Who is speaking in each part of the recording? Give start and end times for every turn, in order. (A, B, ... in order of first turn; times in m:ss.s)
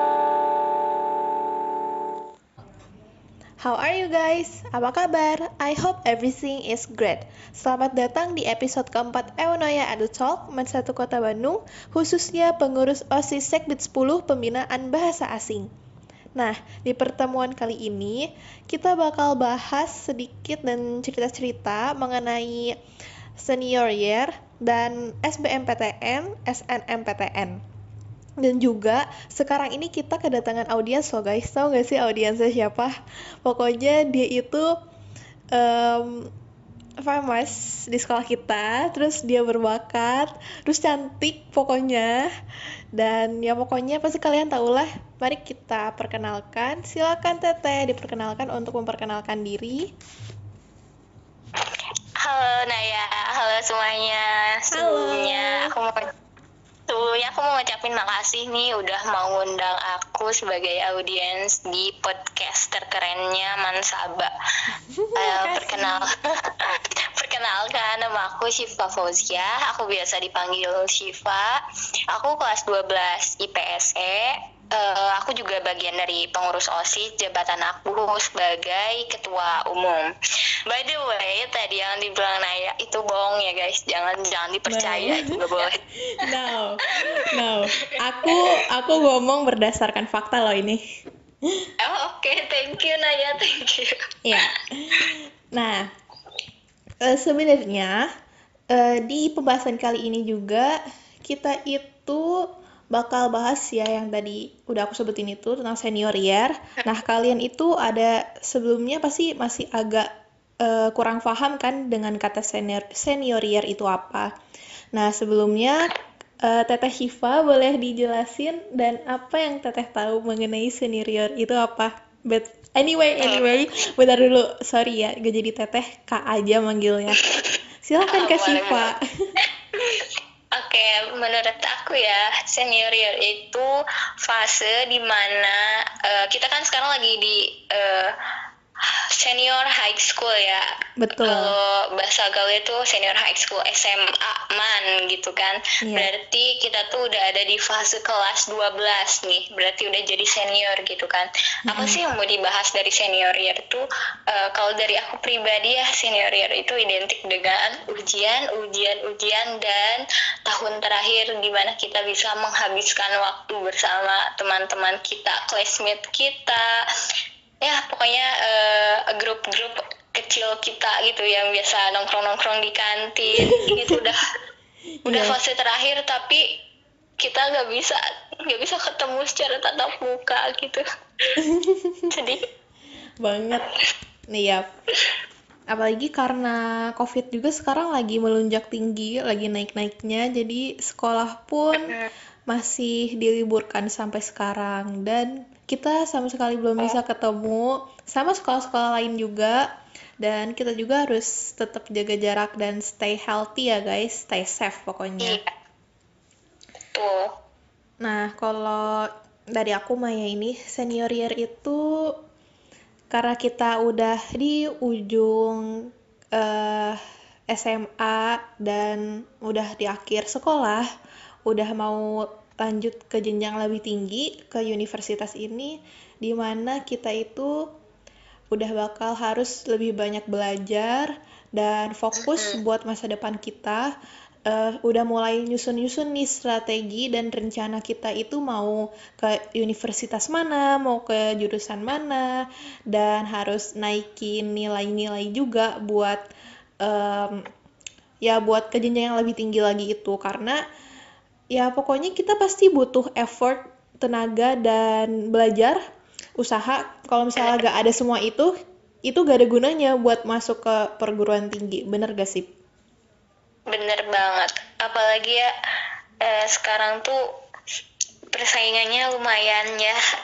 0:03.6-0:15.7 A
0:16.4-0:22.8 A
0:23.4-0:27.6 A
0:28.4-0:34.7 A
0:35.5-0:36.3 A
0:37.0-0:42.3 A
0:42.9-0:49.9 A
0:52.2-0:56.0 B
0:54.7-0:55.7 A
0:56.9-1:04.3 B
1:04.9-1:06.1 A
1:05.2-1:20.1 B
1:20.7-1:25.8 B
1:24.6-1:25.4 A
1:26.2-1:30.8 A
1:26.9-1:28.4 B
1:31.8-1:34.4 B
1:34.2-1:35.9 A
1:37.0-1:38.1 A
1:38.7-1:50.1 A
1:50.6-1:54.3 A
1:54.9-2:07.2 A
2:03.2-2:03.6 B
2:07.1-2:08.9 B
2:07.8-2:09.0 A
2:09.7-2:13.7 B
2:14.2-2:18.1 B
2:19.2-2:20.6 B
2:21.0-2:21.5 A
2:21.2-2:46.8 B
2:25.8-2:26.1 A
2:31.7-2:32.0 A
2:47.6-2:54.2 B
2:53.4-2:54.0 A
2:55.0-2:55.4 A
2:55.1-2:56.6 B
2:57.2-3:01.4 B
3:01.4-3:02.1 A
3:02.1-3:02.4 B
3:03.2-3:03.7 A
3:03.6-3:03.8 B
3:04.3-3:04.6 A
3:05.7-3:11.9 A
3:11.7-3:12.1 B
3:12.5-3:19.6 A
3:20.2-3:25.4 A
3:25.2-3:25.5 B
3:26.9-3:27.3 B
3:28.0-3:32.1 A
3:33.1-3:37.0 A
3:37.5-3:40.8 A
3:41.5-3:47.6 A
3:48.5-3:53.9 A
3:52.1-3:52.6 B
3:54.5-4:06.2 A
4:06.8-4:07.4 A
4:08.2-4:10.6 A
4:11.5-4:15.8 A
4:16.4-4:18.5 A
4:17.4-4:17.6 B
4:19.0-4:22.5 A
4:23.7-4:25.5 B
4:26.2-4:27.2 B
4:28.3-4:30.0 B